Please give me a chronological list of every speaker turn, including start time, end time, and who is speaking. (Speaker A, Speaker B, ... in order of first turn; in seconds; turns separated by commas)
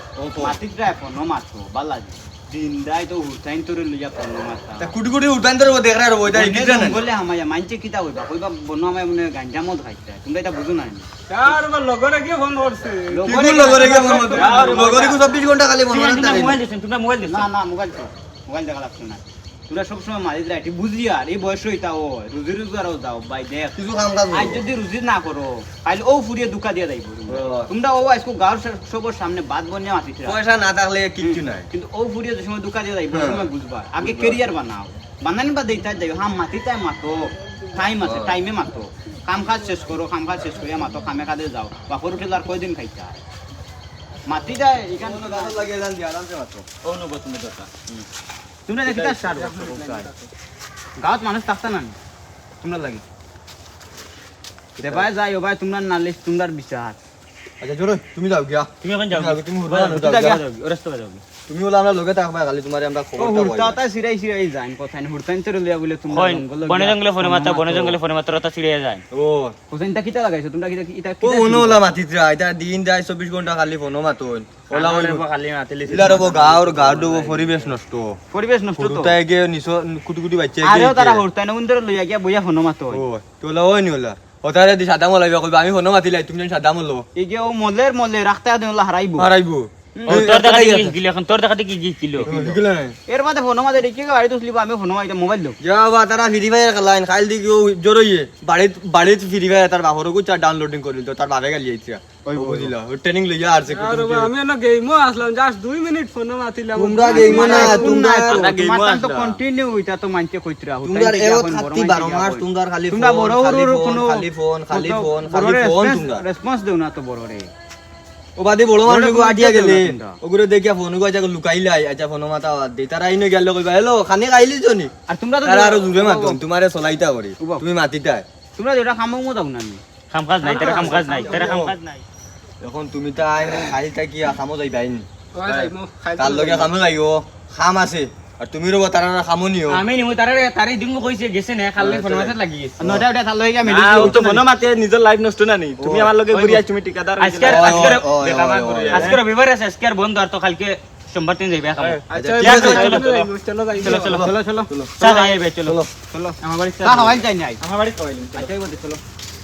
Speaker A: 0.2-0.6, Speaker B: 0.4-4.9, Speaker A: 4.8-7.1, Speaker B: 6.3-11.1, Speaker C: 11.3-15.0, Speaker B: 13.1-15.3, Speaker A: 13.2-16.6, Speaker D: 14.3-14.9, Speaker D: 15.9-17.5, Speaker B: 17.2-23.8, Speaker A: 23.8-24.6, Speaker B: 24.3-30.4, Speaker A: 27.3-27.7, Speaker A: 30.2-31.7, Speaker B: 31.2-43.2, Speaker A: 33.1-34.4, Speaker A: 38.0-38.4, Speaker B: 44.3-45.7, Speaker A: 45.0-46.6, Speaker D: 46.8-48.1, Speaker B: 48.6-50.1, Speaker C: 48.9-50.3, Speaker B: 51.0-52.0, Speaker B: 52.6-53.0, Speaker A: 54.8-55.1, Speaker B: 54.8-57.0, Speaker A: 57.6-60.4, Speaker D: 58.8-61.2, Speaker B: 59.9-60.4, Speaker A: 61.5-63.8, Speaker B: 63.2-68.0, Speaker D: 66.1-69.0, Speaker A: 69.1-69.5, Speaker B: 69.7-71.8, Speaker A: 71.2-75.2, Speaker D: 74.7-77.7, Speaker A: 75.8-78.2, Speaker B: 78.3-79.2, Speaker A: 78.8-81.2, Speaker B: 80.6-83.0, Speaker A: 82.9-87.0, Speaker B: 87.2-89.3, Speaker A: 89.2-91.0, Speaker B: 89.9-90.3, Speaker D: 90.0-92.3, Speaker A: 92.2-92.9, Speaker B: 92.2-95.6, Speaker A: 95.6-104.3, Speaker B: 102.2-102.7, Speaker C: 103.7-108.0, Speaker A: 106.7-108.4, Speaker B: 107.1-117.5, Speaker D: 108.2-109.4, Speaker A: 110.8-116.2, Speaker A: 118.4-124.9, Speaker B: 118.8-120.2, Speaker B: 125.1-126.4, Speaker A: 125.4-128.2, Speaker B: 127.4-127.6, Speaker B: 128.6-129.8, Speaker D: 130.1-132.0, Speaker C: 130.4-131.5, Speaker A: 130.6-131.7, Speaker B: 130.8-131.0, Speaker A: 132.6-139.8, Speaker C: 135.3-136.7, Speaker D: 139.7-142.8, Speaker A: 141.8-143.0, Speaker B: 142.8-144.5, Speaker A: 143.8-144.2, Speaker D: 143.9-144.2, Speaker E: 144.1-149.2, Speaker A: 145.7-146.6, Speaker D: 146.3-146.6, Speaker D: 147.2-154.3, Speaker A: 147.3-149.2, Speaker A: 152.1-153.0, Speaker C: 152.1-154.2, Speaker B: 153.8-154.7, Speaker A: 154.0-155.9, Speaker D: 155.0-155.8, Speaker B: 156.1-157.6, Speaker D: 156.7-158.5, Speaker B: 158.3-159.0